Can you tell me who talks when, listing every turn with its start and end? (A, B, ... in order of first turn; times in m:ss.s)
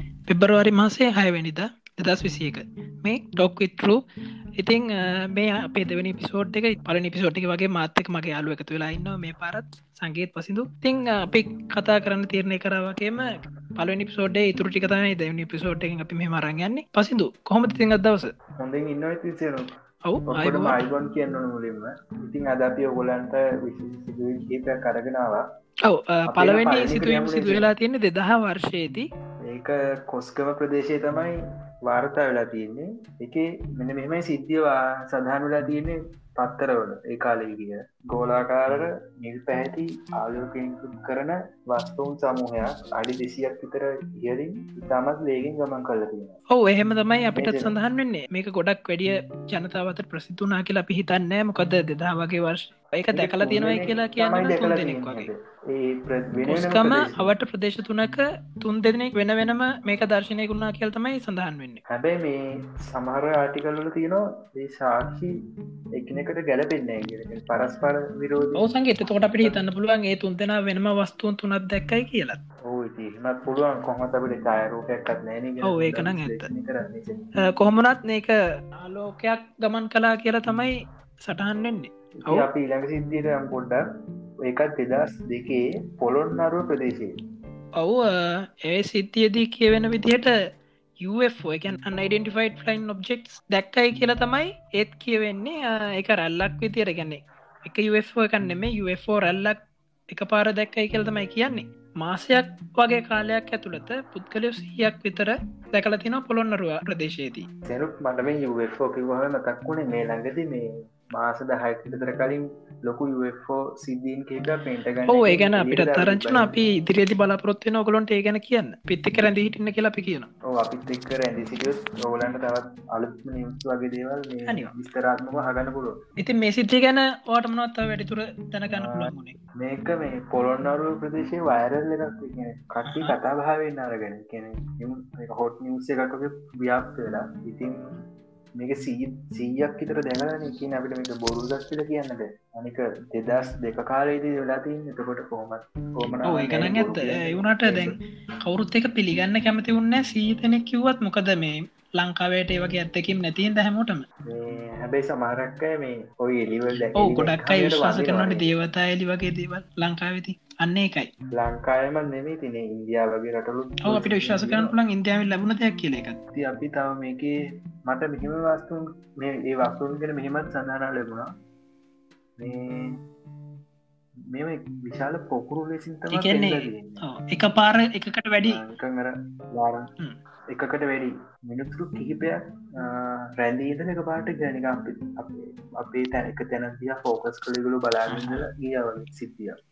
0:00.3-0:04.0 A
0:04.6-0:13.2 A
0:13.8-0:18.3 A
0:18.6-0:19.6 B
0:20.0-0:20.8 A
0:20.3-0:25.4 B
0:25.9-0:29.0 A
0:26.3-0:27.6 B
0:29.5-0:31.3 B
0:31.9-0:46.4 B
0:46.5-0:55.3 A
0:47.3-0:47.8 B
0:53.1-0:57.2 B
0:56.5-1:01.8 A
1:01.9-1:05.3 B
1:06.0-1:08.6 B
1:08.6-1:12.4 A
1:12.7-1:17.2 B
1:15.6-1:16.5 A
1:17.4-1:20.8 A
1:21.2-1:22.5 A
1:22.2-1:23.9 B
1:24.4-1:27.1 B
1:27.8-1:30.3 A
1:31.0-1:39.6 A
1:40.1-1:47.5 A
1:47.7-1:56.6 B
1:55.1-2:00.3 A
2:00.5-2:06.0 B
2:04.5-2:04.7 A
2:06.2-2:09.3 A
2:08.8-2:17.8 B
2:12.8-2:13.2 A
2:18.6-2:28.0 B
2:26.2-2:34.0 A
2:34.2-2:38.6 B
2:37.0-2:41.1 A
2:41.3-2:44.7 B
2:43.8-2:46.2 A
2:46.3-2:47.3 B
2:47.9-2:51.3 B
2:52.4-2:53.0 B
2:54.3-2:57.0 B
2:56.1-2:58.6 A
2:58.4-2:59.8 B
3:00.5-3:09.6 B
3:08.1-3:08.5 A